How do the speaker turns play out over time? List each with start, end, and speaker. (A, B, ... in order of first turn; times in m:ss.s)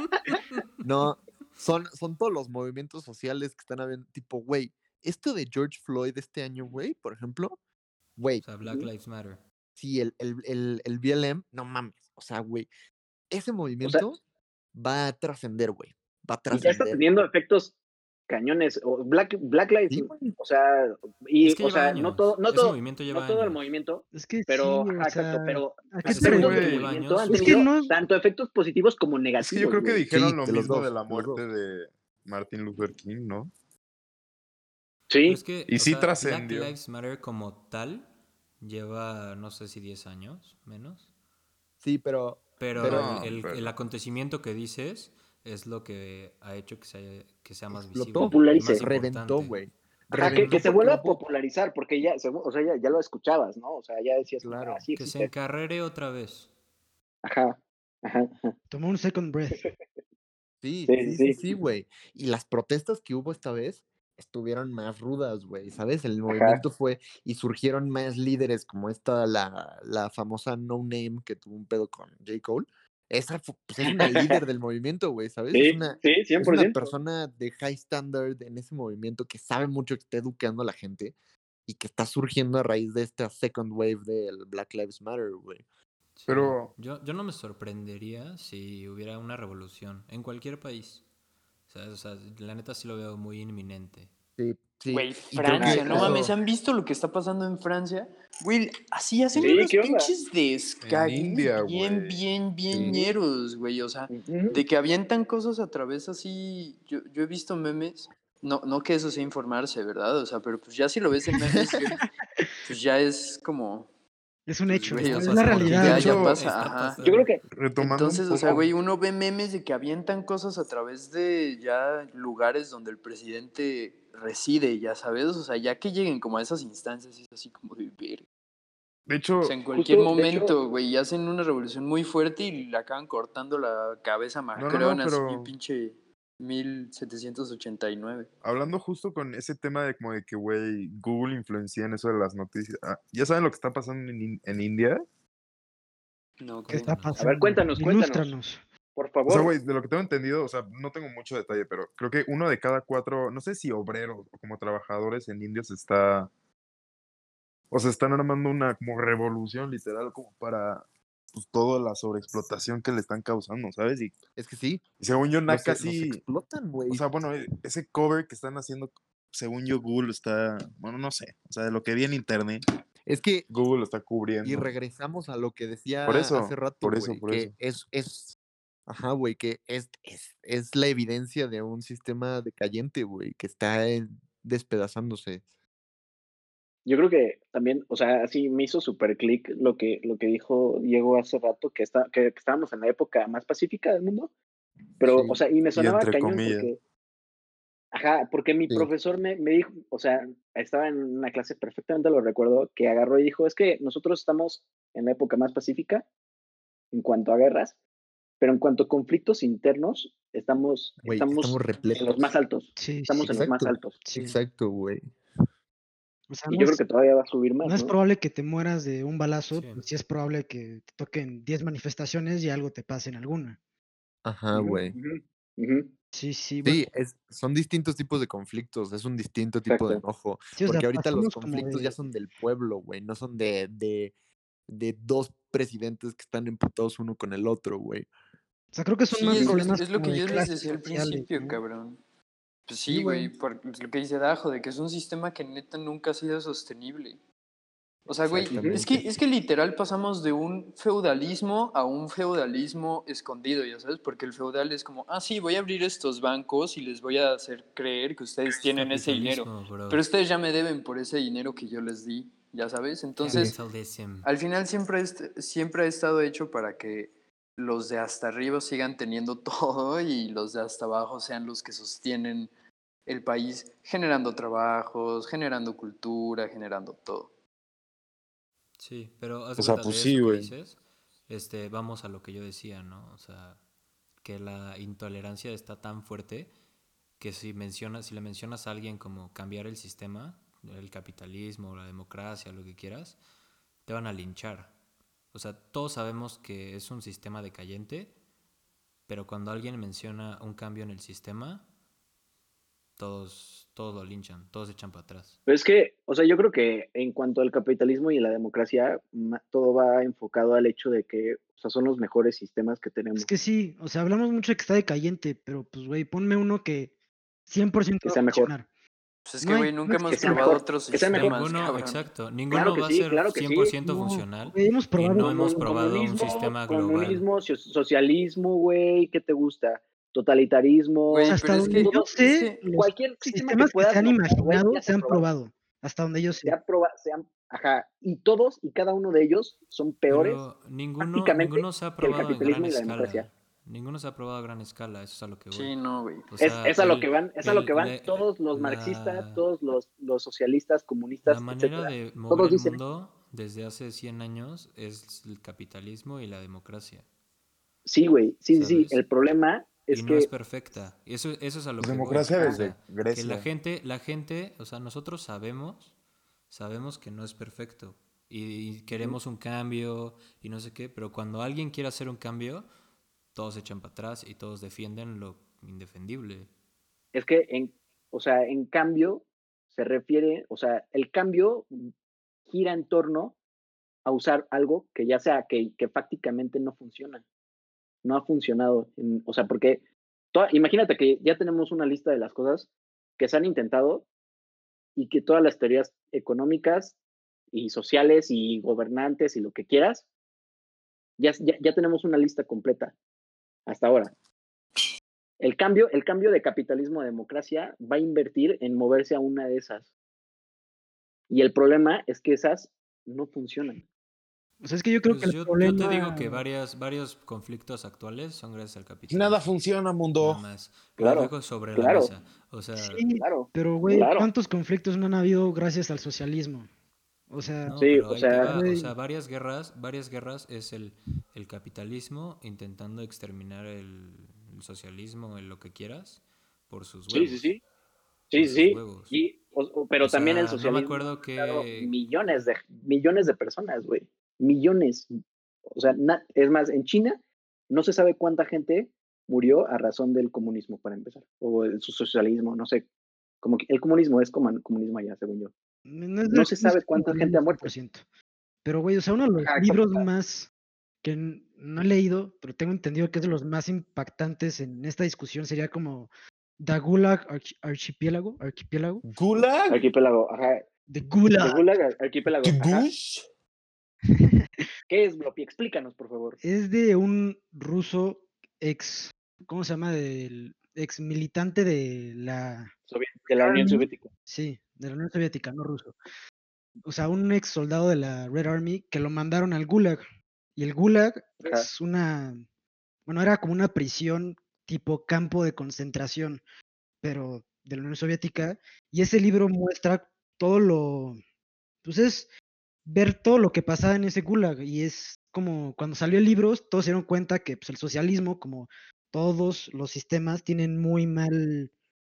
0:00.3-0:00.6 A
0:00.8-0:07.6 B
0:08.2-0:08.6 B
0:08.4-0:09.4 A
0:09.8-0:12.7 B
0:13.3-0:14.2 B
0:14.7-0:17.1 B
0:16.5-0:17.8 C
0:18.3-0:30.1 C
0:19.9-0:20.4 B
0:21.4-0:23.6 A
0:24.1-0:26.8 D
0:26.0-0:27.6 E
0:26.1-0:27.7 A
0:27.3-0:27.9 D
0:29.4-0:33.5 E
0:30.1-0:31.4 B
0:35.1-0:35.4 C
0:35.2-0:38.1 A
0:35.7-0:36.7 E
0:38.6-0:41.1 A
0:41.8-0:43.3 B
0:42.6-0:49.6 A
0:42.8-0:43.7 E
0:47.7-0:51.2 B
0:48.2-0:48.9 C
0:50.1-0:55.3 C
0:50.2-0:50.6 A
0:54.4-0:54.8 B
0:55.0-0:56.5 A
0:57.2-0:58.5 C
0:58.7-0:59.6 D
1:00.6-1:21.1 B
1:00.9-1:01.4 C
1:06.3-1:06.6 C
1:14.0-1:14.4 C
1:15.5-1:16.9 C
1:21.7-1:25.6 B
1:26.2-1:31.0 A
1:26.3-1:26.7 E
1:31.7-1:34.1 A
1:34.4-1:36.3 B
1:34.9-1:52.1 F
1:35.6-1:36.2 C
1:39.4-1:40.1 C
1:40.8-1:42.2 E
1:44.1-1:44.6 C
1:52.6-1:53.9 F
1:54.5-1:56.1 D
1:54.7-1:57.3 A
1:54.9-1:57.0 F
1:55.8-1:56.4 E
1:57.0-1:57.4 C
1:57.5-1:58.7 E
1:57.8-2:08.2 F
2:09.1-2:09.6 E
2:09.4-2:18.3 F
2:09.7-2:10.5 C
2:14.6-2:15.5 E
2:18.4-2:25.0 E
2:26.4-2:27.2 F
2:26.6-2:27.2 A
2:26.7-2:28.6 D
2:27.2-2:28.4 C
2:29.0-2:29.5 C
2:29.3-2:36.3 E
2:37.7-2:44.2 E
2:44.4-2:44.8 B
2:45.0-2:46.2 E
2:45.5-2:47.0 B
2:46.9-2:52.6 E
2:53.1-2:53.5 B
2:53.5-2:54.7 E
2:54.4-2:58.4 B
2:56.0-2:57.5 E
2:58.9-3:05.4 B
3:06.9-3:14.3 C
3:15.0-3:16.8 C
3:15.0-3:15.4 B
3:15.8-3:16.7 E
3:17.9-3:26.1 C
3:26.9-3:27.8 C
3:28.4-3:34.0 C
3:31.0-3:32.3 B
3:32.8-3:33.2 D
3:33.2-3:35.1 B
3:34.0-3:34.4 D
3:36.3-3:36.8 D
3:36.5-3:38.0 C
3:37.6-3:43.6 D
3:39.5-3:39.8 A
3:44.2-3:45.0 B
3:44.5-3:45.9 C
3:46.1-3:46.8 D
3:46.6-3:54.1 B
3:49.7-3:50.0 C
3:50.6-3:51.9 D
3:54.7-3:58.1 B
3:58.7-4:01.6 D
3:59.1-4:02.0 F
4:02.7-4:07.2 F
4:02.9-4:03.3 B
4:08.1-4:23.6 F
4:08.2-4:09.0 A
4:08.5-4:08.9 B
4:18.5-4:20.0 A
4:23.2-4:24.3 A
4:24.2-4:32.5 F
4:33.1-4:37.3 F
4:38.8-4:43.6 A
4:39.6-4:40.5 E
4:44.2-4:46.5 A
4:47.2-4:53.2 A
4:53.8-4:54.7 A
4:55.3-4:58.1 A
4:59.1-5:01.7 A
5:03.0-5:05.4 A
5:05.5-5:13.3 C
5:13.2-5:16.9 D
5:17.5-5:18.7 D
5:18.0-5:18.5 C
5:19.3-5:22.1 F
5:19.4-5:20.6 D
5:20.1-5:21.4 C
5:21.1-5:27.2 A
5:22.5-5:23.7 C
5:23.8-5:26.4 D
5:25.2-5:35.2 C
5:31.1-5:32.6 F
5:31.3-5:36.6 D
5:36.4-5:40.4 C
5:40.1-5:45.7 A
5:41.0-5:43.3 C
5:45.5-5:46.3 F
5:46.3-5:49.4 A
5:46.4-5:52.8 C
5:51.3-5:57.0 A
5:57.8-6:00.3 C
5:58.5-5:59.0 A
5:59.9-6:05.9 A
6:01.8-6:03.5 E
6:06.5-6:12.7 A
6:13.3-6:16.5 A
6:17.1-6:21.7 C
6:22.5-6:23.4 C
6:24.0-6:27.2 C
6:28.0-6:29.8 C
6:30.3-6:34.1 C
6:35.0-6:37.0 C
6:37.5-6:40.1 C
6:41.2-6:43.0 C
6:43.7-6:44.1 C
6:45.4-6:49.9 C
6:51.3-6:53.8 C
6:54.6-6:56.4 D
6:55.1-6:59.5 A
6:59.1-7:00.4 E
7:00.2-7:03.0 A
7:01.0-7:02.1 C
7:02.8-7:06.7 D
7:03.1-7:04.3 C
7:07.3-7:07.8 D
7:07.6-7:17.5 A
7:07.8-7:08.5 C
7:08.4-7:08.9 D
7:17.1-7:17.6 C
7:18.3-7:25.1 C
7:18.3-7:19.2 A
7:20.0-7:21.9 A
7:25.7-7:32.9 C
7:33.4-7:35.5 C
7:35.9-7:38.0 D
7:36.3-7:37.7 C
7:38.6-7:40.5 D
7:39.4-7:40.1 C
7:41.0-7:49.0 D
7:49.0-7:49.9 E
7:49.7-7:50.6 C
7:50.9-7:51.7 D
7:51.3-7:52.9 C
7:52.4-7:53.3 E
7:54.9-7:56.4 C
7:56.4-8:02.7 D
8:02.9-8:04.1 C
8:03.4-8:06.0 D
8:06.8-8:10.0 D
8:10.6-8:12.4 D
8:11.4-8:11.7 C
8:13.1-8:16.4 D
8:17.0-8:21.2 D
8:21.8-8:22.3 D
8:22.9-8:31.7 D